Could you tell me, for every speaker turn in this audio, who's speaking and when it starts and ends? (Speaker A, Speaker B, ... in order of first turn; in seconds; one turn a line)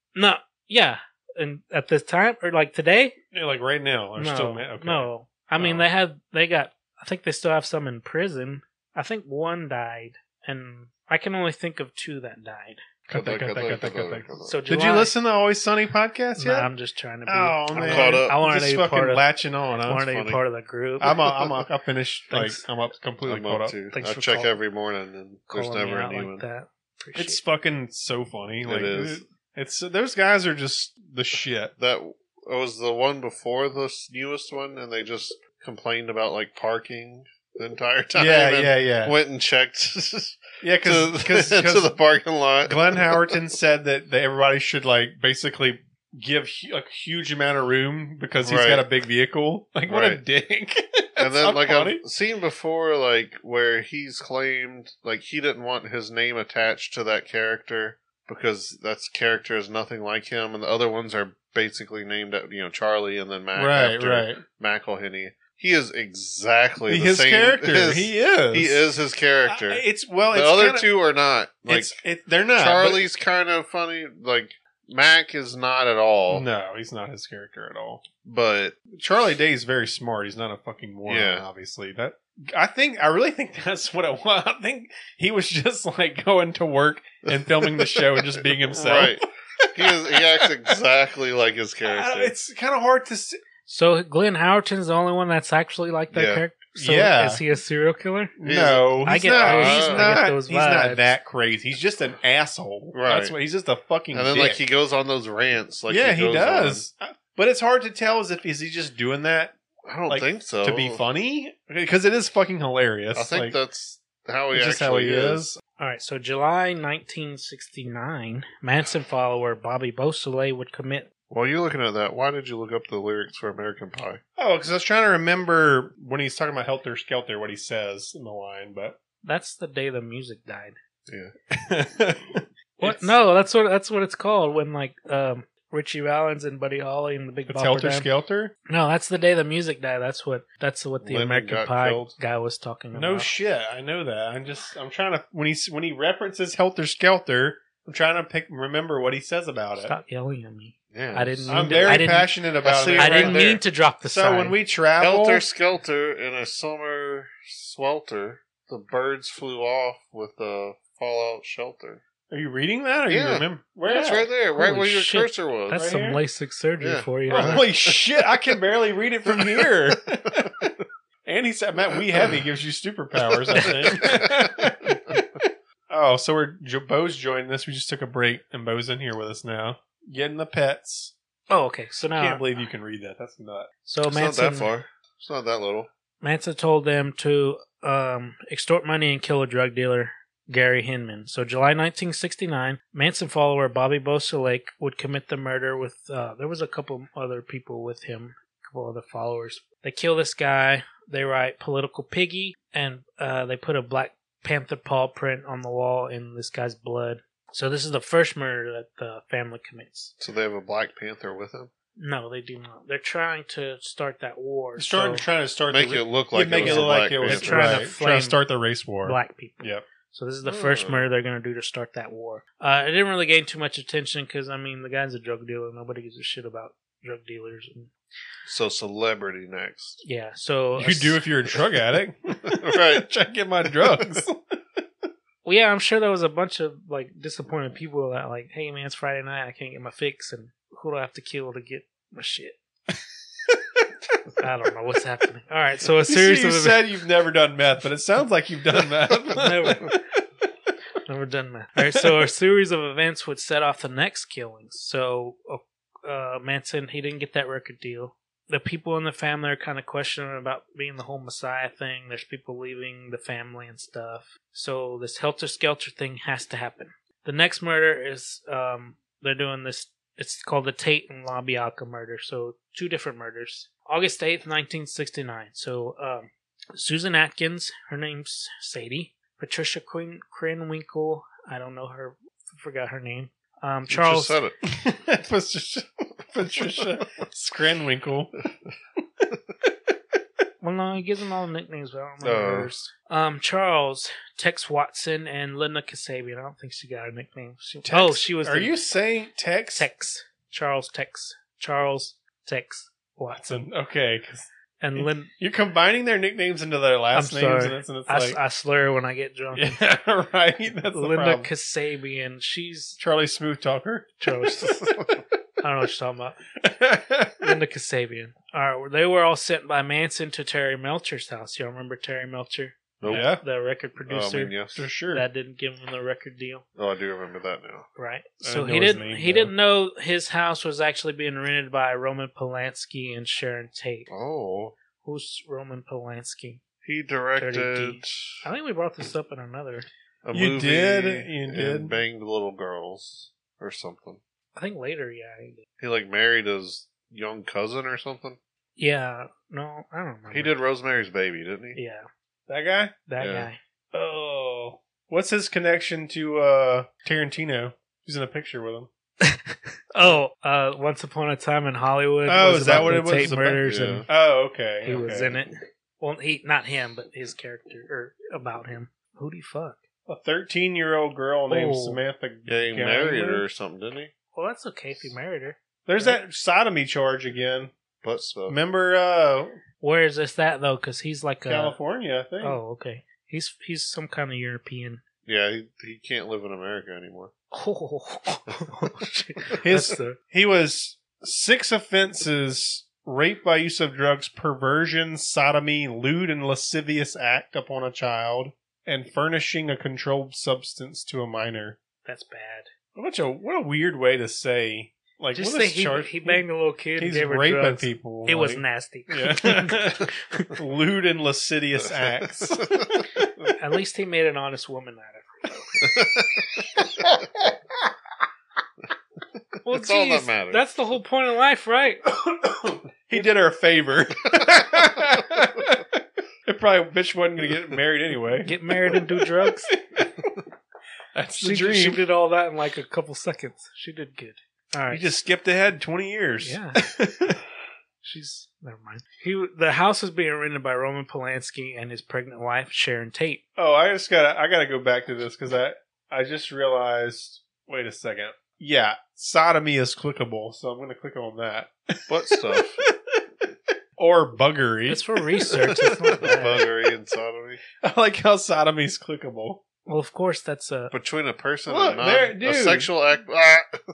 Speaker A: 0.1-3.1
Speaker B: 3.3-5.1
Speaker A: 4.2-12.8
Speaker B: 13.1-16.7
Speaker C: 13.1-14.6
Speaker A: 14.4-15.2
Speaker A: 16.4-19.2
Speaker B: 17.3-20.1
Speaker C: 17.8-18.4
Speaker A: 19.9-21.1
Speaker C: 19.9-20.4
Speaker B: 21.0-23.8
Speaker C: 21.1-21.3
Speaker A: 22.3-22.6
Speaker C: 23.2-26.4
Speaker A: 23.9-24.5
Speaker A: 25.5-27.4
Speaker B: 27.2-31.7
Speaker C: 28.6-29.2
Speaker C: 31.8-43.4
Speaker B: 38.1-39.1
Speaker B: 40.6-41.9
Speaker B: 42.6-52.0
Speaker C: 48.4-48.9
Speaker C: 49.9-50.2
Speaker C: 51.2-72.0
Speaker B: 63.5-64.4
Speaker B: 66.9-68.8
Speaker B: 69.5-70.9
Speaker B: 71.7-73.1
Speaker C: 72.6-76.5
Speaker B: 76.3-78.0
Speaker C: 78.2-78.8
Speaker B: 78.9-90.8
Speaker C: 81.1-81.5
Speaker C: 87.3-92.3
Speaker B: 91.8-93.4
Speaker A: 93.7-98.3
Speaker C: 96.1-96.4
Speaker B: 96.8-97.4
Speaker B: 98.4-104.6
Speaker C: 98.4-100.2
Speaker A: 99.0-101.1
Speaker C: 102.9-103.3
Speaker C: 104.1-106.8
Speaker B: 105.9-109.6
Speaker C: 109.8-111.0
Speaker B: 110.1-113.6
Speaker C: 113.1-115.4
Speaker B: 114.5-115.6
Speaker A: 115.8-121.1
Speaker C: 121.3-124.2
Speaker B: 124.4-129.0
Speaker A: 129.2-130.8
Speaker C: 131.1-131.3
Speaker B: 131.5-133.2
Speaker A: 132.8-138.1
Speaker B: 137.5-138.5
Speaker A: 138.7-143.3
Speaker C: 141.0-142.1
Speaker B: 142.9-149.9
Speaker A: 149.8-152.3
Speaker C: 150.9-152.1
Speaker B: 151.5-153.4
Speaker C: 152.6-153.6
Speaker A: 153.0-154.6
Speaker B: 154.1-155.4
Speaker C: 155.0-162.0
Speaker B: 162.3-164.3
Speaker C: 163.1-165.8
Speaker A: 164.5-167.7
Speaker B: 165.7-166.2
Speaker C: 166.8-168.5
Speaker B: 167.3-181.1
Speaker C: 169.3-169.9
Speaker C: 173.5-175.2
Speaker A: 181.5-182.4
Speaker B: 182.2-183.7
Speaker A: 183.8-184.7
Speaker C: 184.1-185.9
Speaker A: 186.2-210.1
Speaker C: 210.2-211.7
Speaker A: 212.0-215.2
Speaker B: 214.8-219.8
Speaker C: 215.7-217.8
Speaker A: 216.6-218.4
Speaker A: 219.0-227.9
Speaker C: 220.4-221.1
Speaker C: 228.5-230.0
Speaker A: 230.0-231.2
Speaker B: 230.8-234.3
Speaker C: 232.5-233.1
Speaker A: 235.4-242.6
Speaker A: 244.4-246.8
Speaker B: 246.1-250.0
Speaker A: 249.3-250.0
Speaker A: 251.1-284.4
Speaker C: 283.9-284.6
Speaker B: 284.7-288.4
Speaker A: 290.6-298.7
Speaker C: 292.2-292.7
Speaker B: 297.9-299.9
Speaker A: 299.7-303.5
Speaker B: 303.3-308.4
Speaker A: 304.8-305.3
Speaker A: 307.1-309.8
Speaker B: 309.6-311.5
Speaker A: 310.9-313.0
Speaker B: 313.0-314.3
Speaker A: 314.2-314.9
Speaker A: 315.6-316.4
Speaker B: 316.6-317.6
Speaker A: 317.4-324.6
Speaker C: 323.0-323.3
Speaker B: 323.1-323.4
Speaker C: 324.1-324.8
Speaker B: 324.8-325.3
Speaker A: 325.1-326.6
Speaker C: 326.8-327.9
Speaker A: 328.0-334.1
Speaker B: 328.4-329.5
Speaker C: 334.1-334.8
Speaker A: 335.0-336.6
Speaker C: 336.8-338.4
Speaker A: 337.4-339.9
Speaker C: 340.2-344.2
Speaker B: 340.3-342.0
Speaker A: 344.6-345.6
Speaker C: 345.8-348.4
Speaker A: 348.8-350.6
Speaker C: 350.3-351.8
Speaker A: 351.8-352.1
Speaker B: 352.5-353.1
Speaker A: 353.1-353.6
Speaker C: 353.2-353.5
Speaker B: 353.9-358.9
Speaker A: 359.2-364.1
Speaker B: 362.3-365.4
Speaker C: 362.7-362.9
Speaker C: 363.6-364.1
Speaker A: 364.9-369.8
Speaker B: 370.1-373.4
Speaker A: 371.5-372.0
Speaker C: 372.5-374.1
Speaker A: 374.4-376.2
Speaker B: 375.9-377.7
Speaker C: 378.0-378.6
Speaker B: 378.5-379.6
Speaker A: 379.8-381.8
Speaker B: 381.5-382.6
Speaker A: 382.4-385.0
Speaker C: 385.3-387.3
Speaker A: 387.5-390.2
Speaker B: 389.6-401.8
Speaker A: 402.1-402.7
Speaker B: 402.9-406.4
Speaker A: 405.3-410.5
Speaker B: 407.0-413.3
Speaker C: 411.9-412.9
Speaker A: 413.6-415.7
Speaker C: 415.8-416.5
Speaker A: 419.6-422.0
Speaker C: 419.7-420.6
Speaker B: 422.1-430.4
Speaker A: 428.4-429.7
Speaker B: 431.1-432.0
Speaker A: 431.4-435.1
Speaker B: 434.9-437.4
Speaker A: 436.4-436.9
Speaker A: 438.0-443.4
Speaker B: 443.6-453.2
Speaker C: 452.1-452.8
Speaker B: 454.0-456.6
Speaker A: 454.9-456.6
Speaker C: 455.6-457.6
Speaker B: 457.8-459.6
Speaker A: 459.9-460.9
Speaker C: 460.9-463.8
Speaker B: 461.7-462.9